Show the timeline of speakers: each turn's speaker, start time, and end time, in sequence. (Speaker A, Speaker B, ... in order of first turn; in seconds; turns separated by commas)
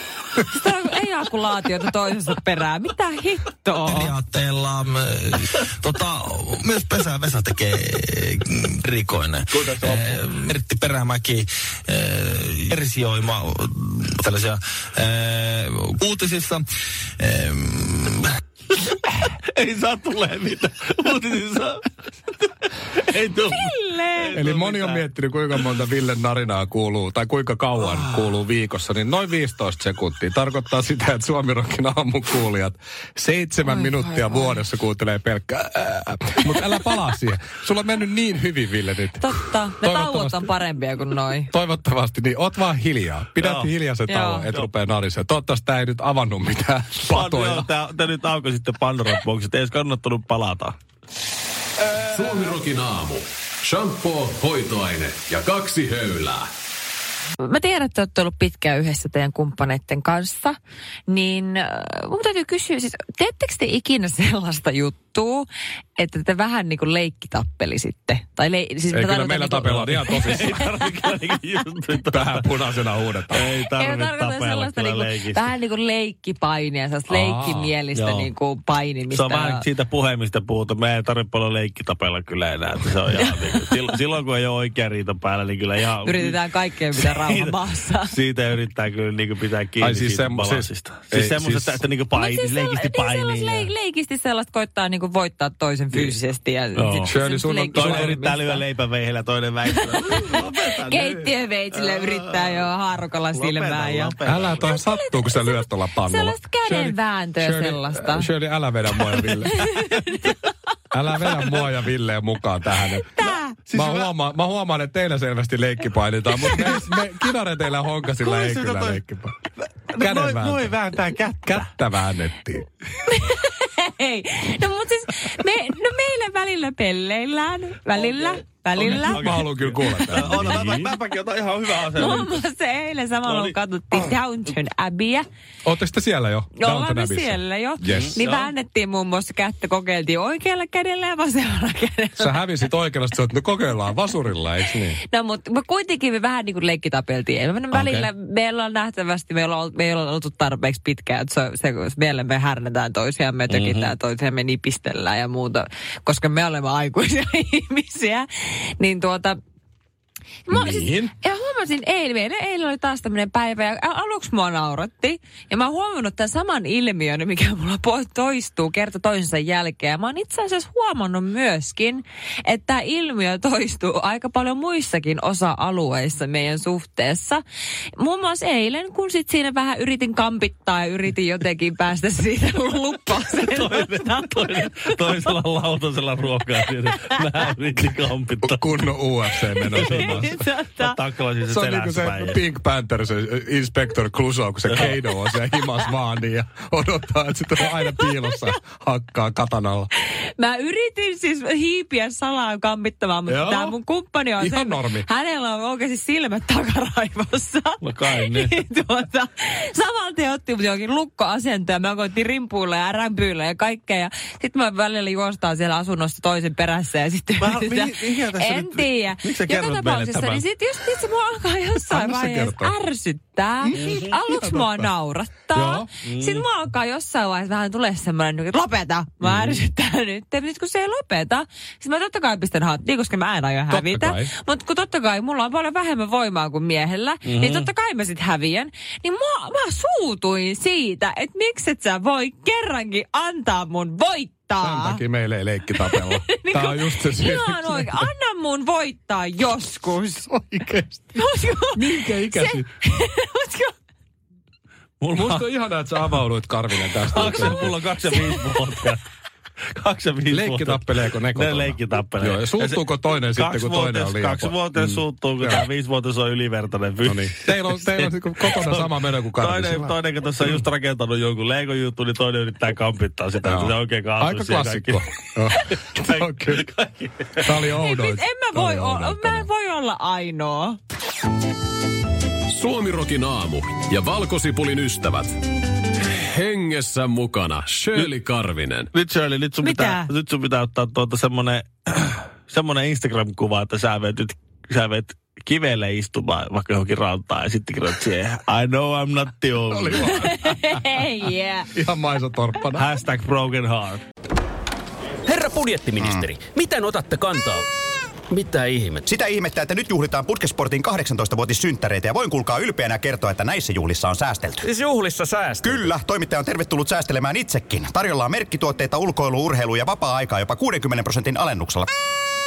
Speaker A: 0.5-4.1, Speaker B: 3.8-16.7, Speaker C: 9.5-10.5, Speaker B: 17.2-18.3, Speaker D: 19.5-25.0, Speaker A: 23.5-24.3, Speaker C: 24.3-39.3, Speaker D: 27.8-28.1, Speaker A: 33.6-34.6, Speaker A: 39.2-41.5, Speaker C: 39.8-40.5, Speaker C: 41.5-47.7, Speaker D: 43.4-43.7, Speaker A: 44.1-44.5, Speaker D: 47.1-50.7, Speaker E: 51.9-56.5, Speaker A: 57.4-70.6, Speaker C: 68.9-70.7, Speaker D: 69.7-72.4, Speaker C: 72.0-73.5, Speaker D: 73.3-75.5, Speaker A: 73.6-79.7, Speaker C: 77.1-77.7, Speaker D: 77.9-78.3, Speaker D: 79.1-86.4, Speaker A: 86.0-88.1, Speaker D: 87.0-93.7, Speaker C: 89.8-91.8, Speaker A: 92.1-98.6, Speaker D: 96.7-97.1, Speaker C: 97.0-98.2, Speaker D: 97.7-102.7, Speaker A: 99.8-108.3, Speaker D: 103.3-104.7, Speaker C: 104.2-109.7, Speaker A: 109.4-110.3, Speaker C: 110.9-113.1, Speaker A: 113.1-113.5, Speaker D: 113.2-114.1, Speaker C: 113.7-119.3, Speaker D: 116.5-116.9, Speaker D: 118.2-119.0, Speaker D: 119.6-121.7, Speaker C: 119.9-120.9, Speaker C: 121.4-122.7, Speaker A: 123.1-130.6, Speaker D: 127.9-132.3, Speaker C: 128.8-130.9, Speaker A: 131.9-135.3, Speaker D: 133.2-134.1, Speaker C: 135.6-138.2, Speaker A: 136.6-142.7, Speaker D: 137.9-138.5, Speaker C: 142.2-145.0, Speaker A: 145.1-159.4, Speaker C: 147.7-148.1, Speaker D: 153.5-153.9, Speaker A: 160.5-177.4, Speaker A: 177.9-184.9, Speaker D: 183.3-188.9, Speaker C: 188.4-190.4, Speaker A: 189.6-190.9, Speaker D: 189.7-192.4, Speaker C: 191.5-199.9, Speaker D: 194.7-194.9, Speaker A: 200.2-245.0, Speaker C: 203.3-203.8, Speaker C: 204.4-205.1, Speaker D: 207.8-208.6, Speaker D: 217.4-220.4, Speaker C: 221.9-222.7, Speaker C: 223.6-224.9, Speaker D: 223.8-224.1, Speaker C: 225.5-225.9, Speaker D: 226.0-226.4, Speaker C: 233.7-234.3, Speaker D: 237.2-237.7, Speaker C: 244.6-248.1, Speaker A: 245.8-250.3, Speaker C: 250.3-251.2, Speaker A: 251.1-253.7, Speaker C: 251.8-252.7, Speaker D: 255.0-255.5, Speaker C: 255.0-257.8, Speaker D: 256.9-259.0, Speaker D: 259.7-275.0, Speaker C: 260.3-265.6, Speaker C: 267.0-270.6, Speaker C: 273.4-276.6, Speaker D: 275.5-277.6, Speaker C: 277.4-279.5, Speaker A: 277.8-280.8, Speaker E: 282.5-285.3, Speaker E: 286.1-288.9, Speaker D: 288.9-300.2, Speaker A: 289.6-290.1, Speaker C: 299.7-300.8, Speaker A: 300.1-301.7, Speaker C: 301.7-302.9, Speaker D: 302.8-304.0, Speaker F: 305.3-307.6, Speaker G: 306.0-306.3, Speaker F: 308.3-309.0, Speaker G: 309.0-314.7, Speaker F: 314.6-315.8, Speaker G: 315.6-321.9